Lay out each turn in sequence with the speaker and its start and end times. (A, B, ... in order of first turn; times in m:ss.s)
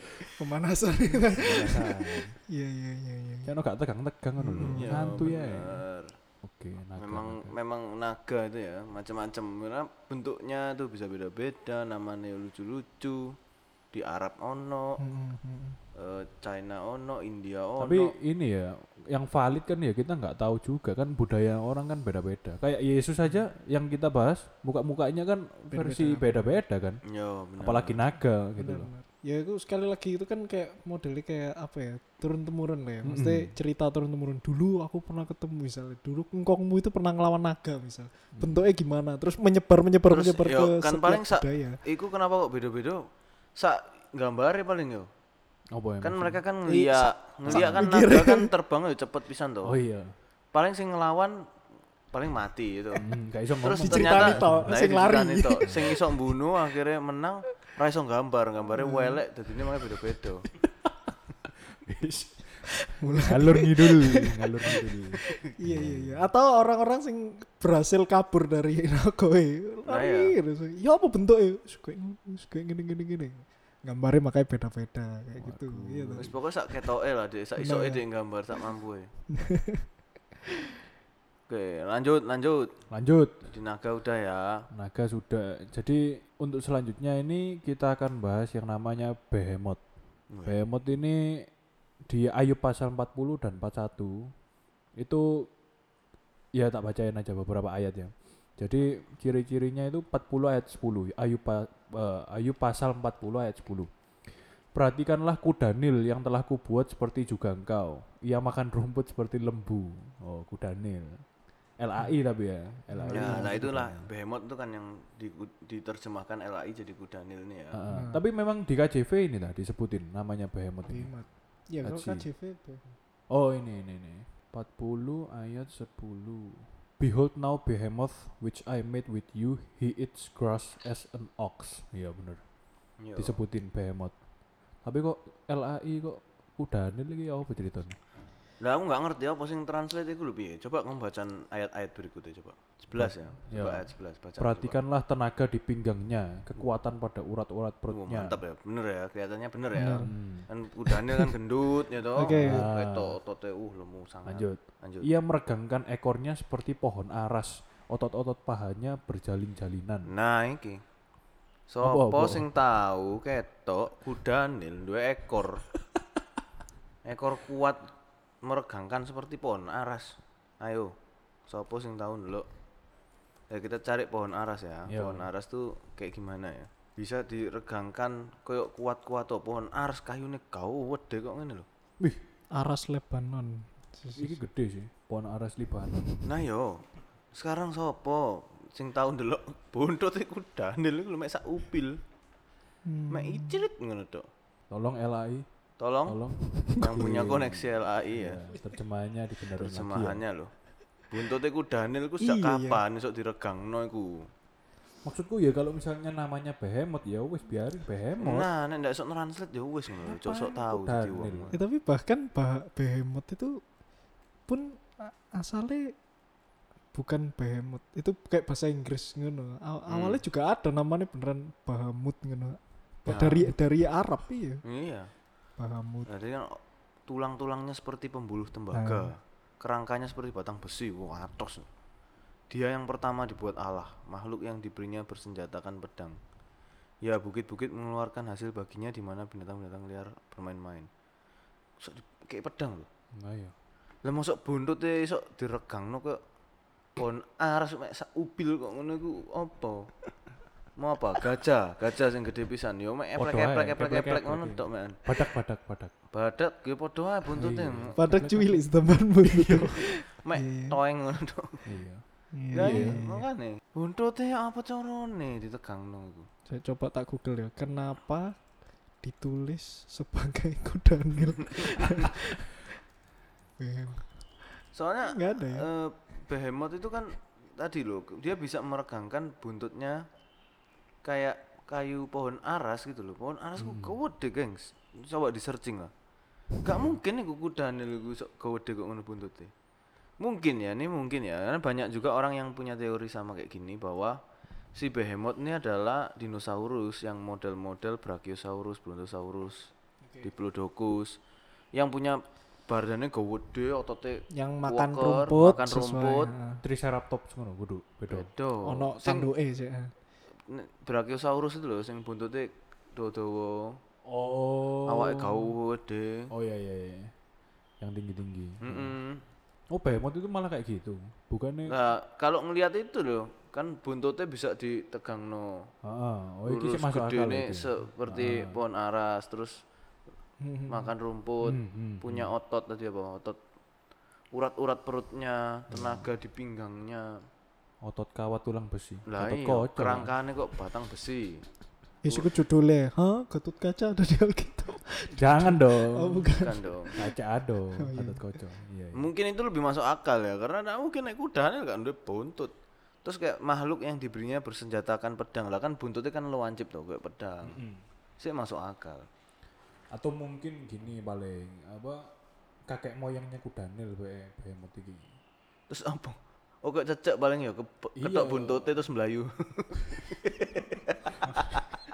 0:00.4-0:03.5 A
0:01.4-0:02.4 B
0:03.4-0:05.8 B
0:04.4-0:05.2 A
0:04.6-0:06.2 C
0:06.4-0:07.6 B
0:07.0-0:13.3 C
0:13.9-0:15.0 C
0:15.0-0:15.8 A
0:16.0-0:18.1 C
0:17.8-0:27.0 B
0:25.7-0:26.6 A
0:27.1-0:28.0 C
0:27.6-0:28.9 B
0:28.6-0:41.8 A
0:33.0-0:33.6 B
0:38.3-0:38.7 B
0:40.1-0:43.0 C
0:43.6-0:45.1 C
0:45.7-0:46.4 B
0:46.0-0:49.8 C
0:46.7-0:48.5 A
0:47.5-0:47.8 B
0:49.6-0:50.2 B
0:50.5-0:51.4 C
0:52.1-0:53.1 C
0:53.0-0:54.7 B
0:53.6-1:00.5 C
0:53.8-0:56.0 A
0:55.6-0:56.0 B
0:58.8-0:59.2 A
1:00.6-1:06.3 B
1:02.9-1:04.8 A
1:05.5-1:16.3 A
1:09.9-1:10.4 C
1:15.4-1:16.4 B
1:16.2-1:19.1 C
1:17.6-1:18.0 A
1:19.3-1:19.9 A
1:21.5-1:22.7 C
1:22.9-1:23.5 B
1:23.5-1:24.6 C
1:24.7-1:29.8 B
1:30.3-1:30.6 C
1:30.4-1:31.5 B
1:32.1-1:34.3 B
1:35.0-1:35.5 B
1:36.5-1:54.1 B
1:52.9-1:53.5 A
1:53.1-1:57.8 C
1:57.7-2:02.3 B
1:57.9-1:58.2 A
2:00.9-2:03.0 A
2:03.3-2:12.4 B
2:13.0-2:13.4 C
2:13.2-2:14.2 B
2:14.8-2:18.0 B
2:18.6-2:24.8 C
2:23.0-2:28.4 B
2:27.9-2:35.1 C
2:29.8-2:30.1 A
2:30.1-2:30.5 B
2:30.9-2:31.3 A
2:32.2-2:32.7 A
2:32.3-2:33.2 B
2:34.2-2:40.1 B
2:40.1-2:40.8 C
2:41.7-2:45.6 C
2:41.8-2:42.4 B
2:47.0-2:47.9 C
2:48.4-2:50.9 C
2:51.5-2:52.5 C
2:53.5-3:01.7 C
2:54.9-2:55.3 B
3:02.6-3:04.4 A
3:04.2-3:06.4 B
3:06.2-3:12.0 C
3:12.9-3:13.6 A
3:13.1-3:14.3 C
3:14.7-3:15.5 B
3:15.8-3:16.2 C
3:16.1-3:20.2 B
3:16.8-3:18.4 C
3:19.6-3:24.3 C
3:22.2-3:22.8 A
3:25.0-3:28.5 B
3:28.2-3:31.6 C
3:30.0-3:31.5 B
3:31.5-3:33.6 A
3:34.5-3:36.0 A
3:36.9-3:44.6 A
3:39.9-3:40.2 C
3:43.1-3:43.5 C
3:44.6-3:45.1 C
3:45.6-3:46.1 A
3:46.1-3:51.7 C
3:48.7-3:49.1 A
3:52.5-3:56.2 C
3:57.0-4:00.9 C
4:01.8-4:02.9 C
4:03.2-4:03.5 B
4:04.0-4:06.2 C
4:07.0-4:09.9 C
4:10.8-4:15.3 C
4:13.2-4:15.9 B
4:16.1-4:18.0 C
4:17.3-4:19.7 B
4:18.0-4:20.8 A
4:19.8-4:21.7 C
4:21.7-4:23.0 B
4:22.3-4:23.2 A
4:22.5-4:26.3 C
4:26.5-4:32.4 A
4:33.6-4:35.7 A
4:34.7-4:40.0 C
4:41.0-4:45.9 C
4:43.6-4:44.0 B
4:46.5-4:49.5 C
4:46.7-4:47.0 B
4:50.2-4:54.2 C
4:54.8-4:59.7 C
5:00.2-5:01.2 C
5:01.7-5:06.3 C
5:04.3-5:06.6 A
5:06.6-5:08.3 B
5:08.1-5:09.3 C
5:08.6-5:09.9 A
5:10.5-5:13.8 C
5:14.0-5:15.5 B
5:14.9-5:16.3 C
5:16.3-5:17.1 B
5:17.8-5:19.0 B
5:18.6-5:19.2 C
5:19.7-5:21.8 B
5:21.7-5:25.7 C
5:25.8-5:28.6 B
5:26.5-5:29.6 C
5:30.4-5:30.9 A
5:30.7-5:33.4 C
5:31.4-5:32.3 B
5:34.3-5:37.2 C
5:35.7-5:36.1 B
5:37.8-5:40.1 B
5:39.1-5:41.4 C
5:42.0-5:47.0 A
5:45.2-5:46.4 B
5:46.4-5:46.9 C
5:47.0-5:49.1 B
5:47.8-5:48.3 A
5:49.0-5:52.5 C
5:53.0-5:57.6 C
5:57.4-5:57.8 B
5:58.2-5:59.1 C
5:59.9-6:02.0 B
6:02.7-6:05.2 B
6:05.7-6:11.6 C
6:08.0-6:08.7 B